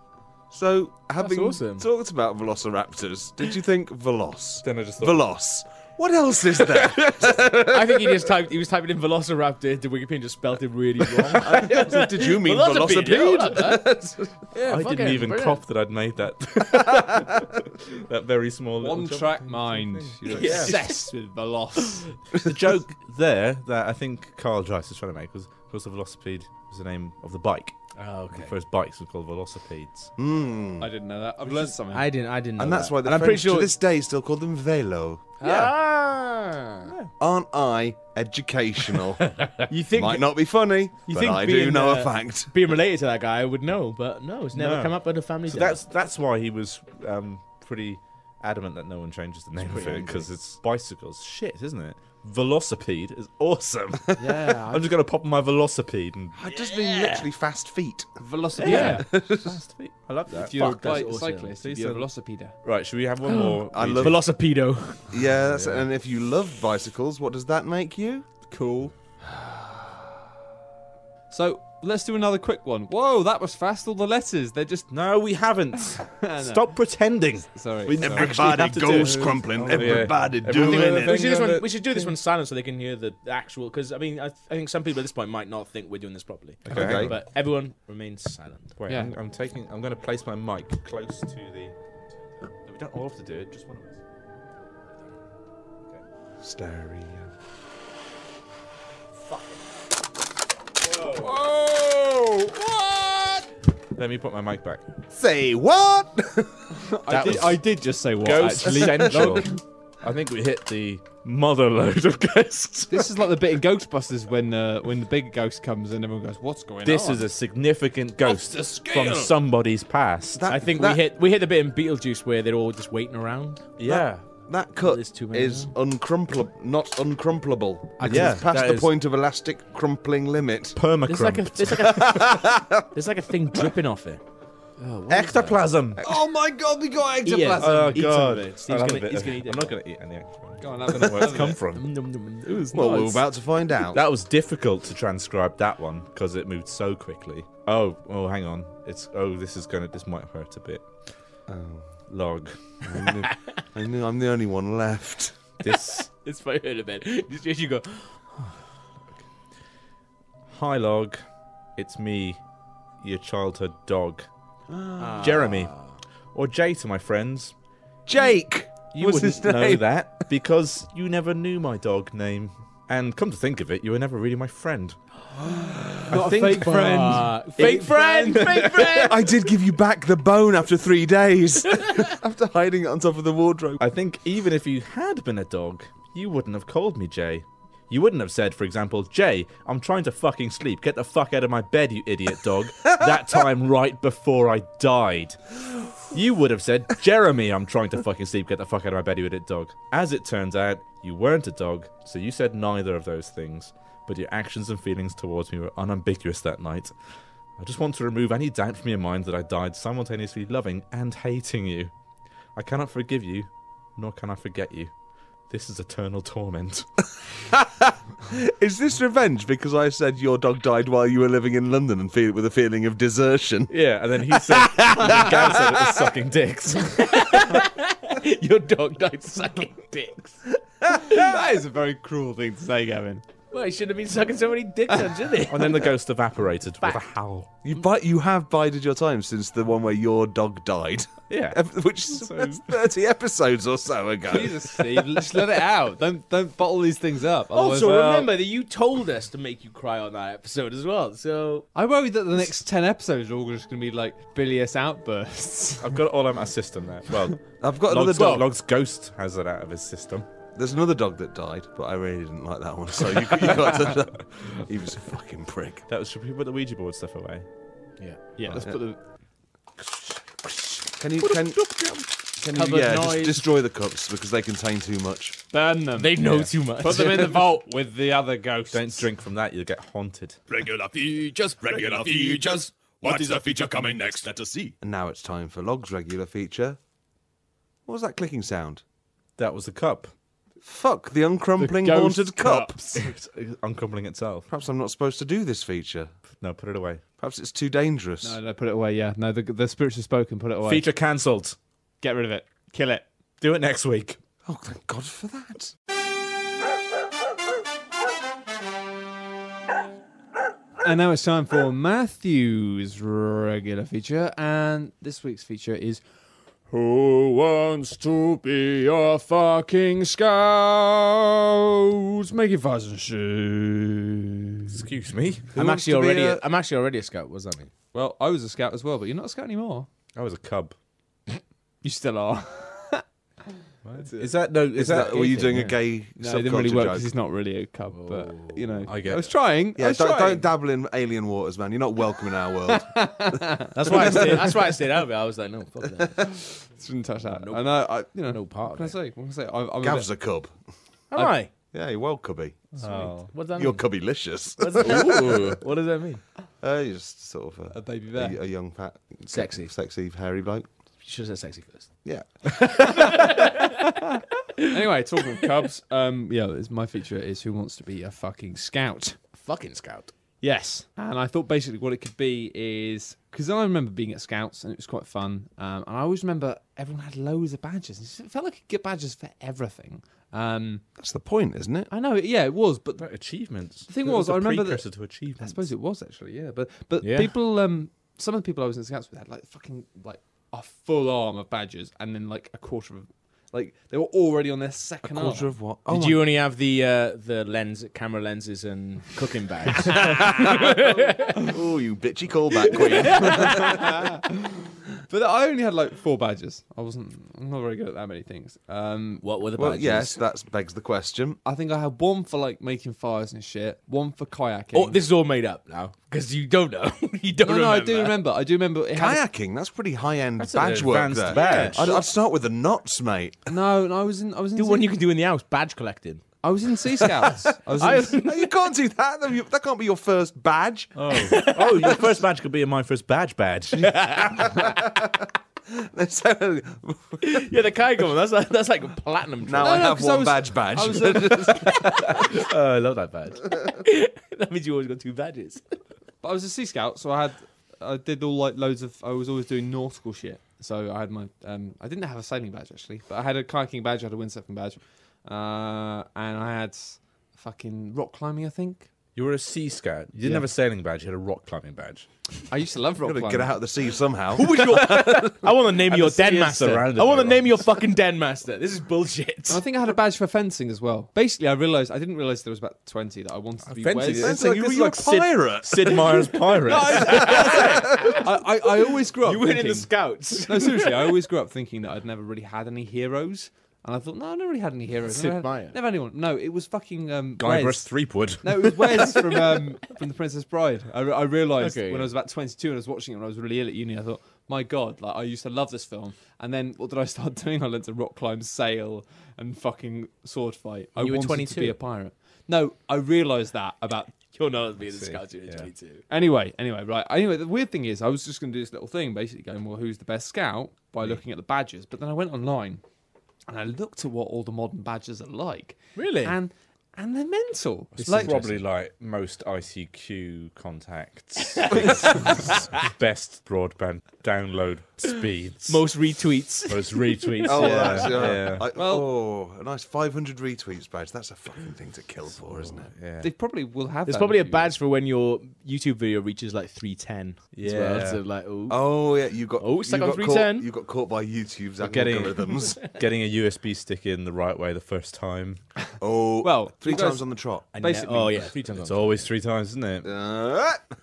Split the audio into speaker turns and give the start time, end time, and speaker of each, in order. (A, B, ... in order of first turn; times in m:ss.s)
0:00.5-0:08.1 A
0:01.2-0:01.9 B
0:04.6-0:05.2 C
0:07.2-0:14.0 B
0:11.4-0:14.3 A
0:14.5-0:15.6 B
0:14.6-0:20.8 C
0:18.8-0:22.1 D
0:20.3-0:21.1 B
0:22.3-0:30.1 C
0:28.0-0:28.5 B
0:30.2-0:30.9 A
0:30.8-0:32.1 D
0:31.5-0:33.7 B
0:32.6-0:35.3 A
0:35.4-0:36.9 B
0:35.4-0:35.7 C
0:37.2-0:39.3 A
0:39.7-0:40.2 B
0:39.7-0:40.2 D
0:39.9-0:42.5 A
0:41.1-0:45.8 B
0:41.1-0:41.4 D
0:44.5-0:56.4 C
0:49.6-0:50.3 B
0:54.2-0:54.9 D
0:56.4-0:59.6 A
0:56.8-0:57.2 B
0:58.2-0:59.0 D
0:58.6-1:01.0 C
0:58.6-0:59.0 B
1:00.3-1:02.6 D
1:00.4-1:01.5 B
1:01.6-1:02.1 C
1:02.6-1:04.2 C
1:03.2-1:05.2 B
1:03.7-1:04.2 A
1:05.1-1:08.3 A
1:05.5-1:05.8 C
1:08.5-1:08.9 D
1:09.4-1:09.8 A
1:11.3-1:14.9 D
1:14.9-1:21.7 C
1:16.0-1:16.8 D
1:17.5-1:20.1 D
1:18.0-1:21.2 A
1:20.4-1:28.7 B
1:26.6-1:27.2 C
1:26.7-1:27.2 A
1:28.8-1:31.7 C
1:28.9-1:29.1 D
1:32.6-1:34.0 C
1:36.4-1:37.3 A
1:40.9-1:41.3 C
1:41.2-1:43.0 D
1:43.9-1:44.8 C
1:45.1-1:46.7 A
1:46.8-1:49.6 D
1:47.1-1:47.6 C
1:48.2-1:53.1 C
1:48.6-1:49.5 A
1:52.9-1:57.3 D
1:56.8-2:00.4 C
1:58.2-1:59.3 D
2:00.3-2:01.0 A
2:00.5-2:03.7 B
2:03.8-2:04.2 C
2:03.8-2:10.8 A
2:04.8-2:05.7 B
2:08.0-2:08.6 B
2:08.0-2:08.9 C
2:10.8-2:12.0 C
2:11.0-2:14.2 B
2:11.8-2:12.8 A
2:14.8-2:15.6 B
2:15.1-2:16.0 C
2:16.0-2:17.8 A
2:17.2-2:19.8 B
2:17.5-2:17.9 D
2:17.6-2:21.8 C
2:20.6-2:21.6 D
2:21.0-2:23.2 B
2:22.7-2:24.0 A
2:23.9-2:30.9 C
2:31.5-2:31.9 A
2:32.1-2:32.8 C
2:32.8-2:35.4 A
2:35.6-2:36.1 C
2:35.7-2:38.2 B
2:40.5-2:41.2 C
2:41.8-2:42.4 C
2:43.0-2:44.3 C
2:44.7-2:45.2 A
2:45.0-2:46.0 B
2:45.2-2:45.8 C
2:46.3-2:47.5 C
2:48.0-2:50.2 A
2:48.9-2:55.0 C
2:56.0-2:58.5 D
2:56.1-2:59.1 C
2:56.1-2:59.3 B
2:59.0-3:03.8 A
3:03.8-3:26.9 C
3:27.6-3:31.9 C
3:32.5-3:34.9 C
3:35.5-3:37.1 C
3:37.5-3:43.7 A
3:43.7-3:47.5 C
3:44.2-3:46.0 A
3:47.0-3:51.3 B
3:51.1-3:53.2 D
3:53.5-3:55.9 B
3:55.5-3:57.5 C
3:57.6-4:05.0 A
4:01.3-4:02.6 C
4:04.3-4:08.2 D
4:07.5-4:11.6 B
4:07.8-4:08.3 C
4:11.7-4:16.0 D
4:15.8-4:20.3 C
4:17.6-4:18.5 A
4:18.1-4:18.4 B
4:20.5-4:25.8 A
4:25.9-4:27.4 C
4:28.0-4:28.4 B
4:28.4-4:29.0 D
4:29.8-4:32.1 C
4:31.0-4:35.4 A
4:32.5-4:33.4 B
4:35.5-4:39.1 D
4:35.9-4:37.5 B
4:38.7-4:40.4 C
4:40.5-4:44.7 E
4:41.6-4:43.7 D
4:44.8-4:46.8 A
4:47.8-4:48.8 A
4:49.4-4:50.1 C
4:50.6-4:52.8 A
4:51.6-4:53.1 D
4:52.9-4:54.5 C
4:54.5-4:56.1 A
4:56.4-4:57.0 C
4:57.2-4:58.4 A
4:58.2-5:00.9 D
5:00.6-5:01.6 C
5:02.0-5:03.0 D
5:03.4-5:04.2 C
5:04.4-5:05.7 A
5:10.8-5:16.0 D
5:16.7-5:24.8 D
5:24.7-5:26.4 C
5:25.5-5:27.7 B
5:27.9-5:29.9 D
5:30.1-5:30.7 C
5:31.8-5:33.0 D
5:33.8-5:35.6 C
5:34.7-5:37.1 A
5:35.1-5:35.7 B
5:36.2-5:40.4 D
5:37.9-5:38.9 B
5:38.9-5:39.3 C
5:39.8-5:44.4 A
5:42.7-5:44.5 D
5:43.7-5:46.2 B
5:46.7-5:50.1 D
5:47.2-5:49.0 B
5:49.8-5:50.5 A
5:51.1-5:51.5 B
5:51.7-5:52.8 A
5:52.8-5:53.3 C
5:53.2-5:53.8 B
5:53.5-5:55.6 A
5:54.6-5:56.2 B
5:54.8-5:55.6 C
5:56.6-6:00.7 A
5:57.7-5:58.4 D
5:59.3-5:59.7 B
6:01.0-6:01.9 B
6:02.0-6:02.8 A
6:02.9-6:03.7 B
6:04.6-6:09.2 D
6:09.3-6:10.1 B
6:10.4-6:20.8 D
6:21.0-6:21.9 A
6:21.9-6:23.0 D
6:23.0-6:25.7 C
6:23.9-6:35.5 D
6:27.0-6:27.3 B
6:35.0-6:36.3 A
6:35.9-6:41.4 B
6:39.9-6:43.8 A
6:42.7-6:43.7 B
6:43.2-6:49.2 D
6:49.2-6:50.2 B
6:49.6-6:51.4 A
6:51.4-6:55.0 D
6:54.7-6:58.2 B
6:57.4-6:59.2 D
6:58.9-7:03.4 A
7:00.4-7:02.0 C
7:00.6-7:02.0 B
7:03.5-7:04.9 D
7:04.6-7:06.4 B
7:06.4-7:08.2 D
7:07.8-7:08.5 B
7:08.1-7:11.3 A
7:11.0-7:14.5 C
7:11.1-7:12.1 B
7:13.8-7:14.5 B
7:14.5-7:15.1 A
7:15.7-7:17.4 A
7:17.2-7:20.0 B
7:19.4-7:22.1 A
7:19.6-7:21.6 D
7:21.7-7:23.4 C
7:23.6-7:25.7 B
7:26.2-7:38.9 D
7:39.1-7:42.1 C
7:42.5-7:43.6 D
7:43.0-7:45.3 A
7:44.3-7:49.6 B
7:45.8-7:47.6 C
7:49.5-7:54.4 D
7:53.8-7:54.2 C
7:53.8-7:55.2 B
7:54.2-7:56.1 A
7:55.6-7:57.4 C
7:56.5-7:58.2 B
7:56.6-7:59.9 D
7:57.1-7:57.8 A
7:59.2-8:01.1 B
8:00.4-8:24.1 D
8:05.1-8:05.8 B
8:07.4-8:09.4 C
8:11.6-8:12.1 B
8:21.0-8:21.8 B
8:24.3-8:26.0 B
8:24.9-8:25.7 C
8:26.1-8:32.8 D
8:33.5-8:38.4 D
8:36.0-8:36.4 B
8:38.0-8:38.6 B
8:38.0-8:46.0 C
8:45.7-8:48.4 B
8:46.6-8:48.6 C
8:47.4-8:52.9 A
8:48.7-8:49.1 D
8:52.4-8:53.3 C
8:53.2-8:54.7 D
8:54.0-8:58.9 B
8:57.5-8:58.2 C
8:58.7-9:02.8 A
8:59.6-9:00.7 B
9:01.8-9:05.6 C
9:06.0-9:07.6 A
9:06.4-9:08.5 D
9:07.7-9:09.3 B
9:08.8-9:10.1 C
9:10.0-9:10.8 A